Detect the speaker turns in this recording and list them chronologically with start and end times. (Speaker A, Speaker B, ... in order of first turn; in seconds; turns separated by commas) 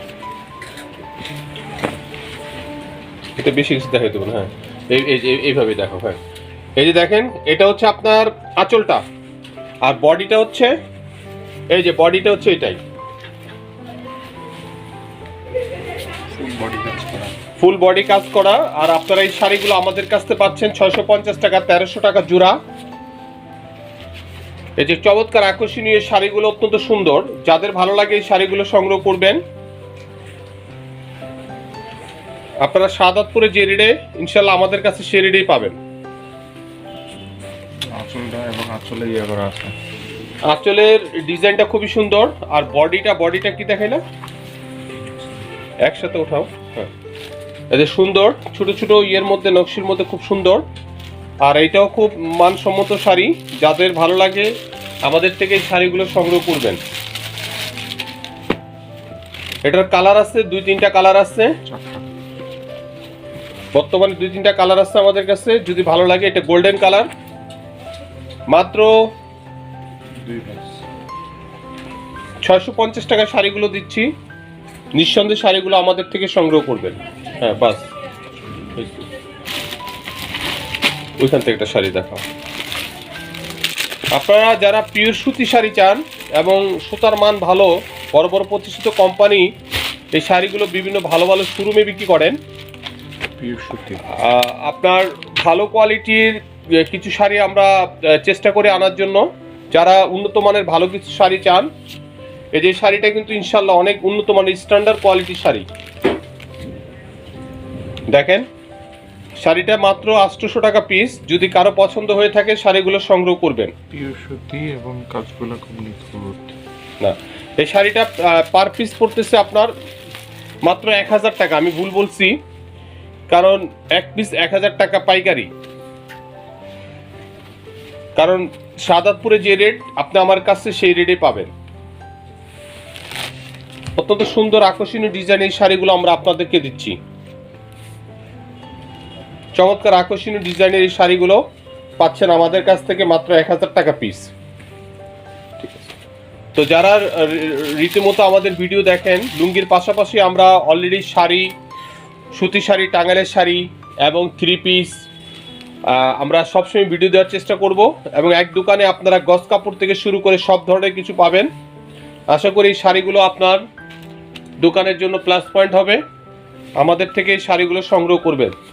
Speaker A: 3.4-6.2, Speaker A: 6.8-9.0, Speaker A: 9.8-10.7, Speaker A: 11.7-12.8, Speaker B: 16.3-17.4, Speaker A: 17.6-22.6, Speaker A: 24.8-29.4, Speaker A: 32.6-35.8, Speaker B: 37.9-39.7, Speaker A: 40.5-44.0, Speaker A: 45.8-46.9, Speaker A: 47.7-50.6, Speaker A: 51.4-54.5, Speaker A: 55.0-56.8, Speaker A: 59.6-61.6, Speaker B: 61.6-62.1, Speaker A: 63.7-67.1, Speaker A: 68.5-68.9, Speaker B: 70.2-70.8, Speaker A: 72.4-74.1, Speaker A: 75.0-77.8, Speaker A: 78.8-79.0, Speaker A: 81.2-82.2, Speaker A: 84.1-89.5, Speaker A: 90.1-92.4, Speaker B: 93.4-94.0, Speaker A: 94.1-101.7, Speaker A: 102.5-105.7, Speaker A: 108.1-108.5, Speaker A: 109.4-113.7, Speaker B: 113.9-116.6, Speaker A: 117.0-119.7, Speaker A: 120.6-122.4, Speaker A: 123.3-125.5, Speaker A: 128.2-131.5, Speaker A: 133.9-137.0, Speaker A: 139.6-141.4, Speaker A: 142.0-144.3, Speaker A: 146.5-151.5, Speaker A: 152.3-155.0, Speaker A: 155.9-161.5, Speaker A: 162.3-163.6, Speaker A: 164.6-166.0, Speaker A: 166.8-168.5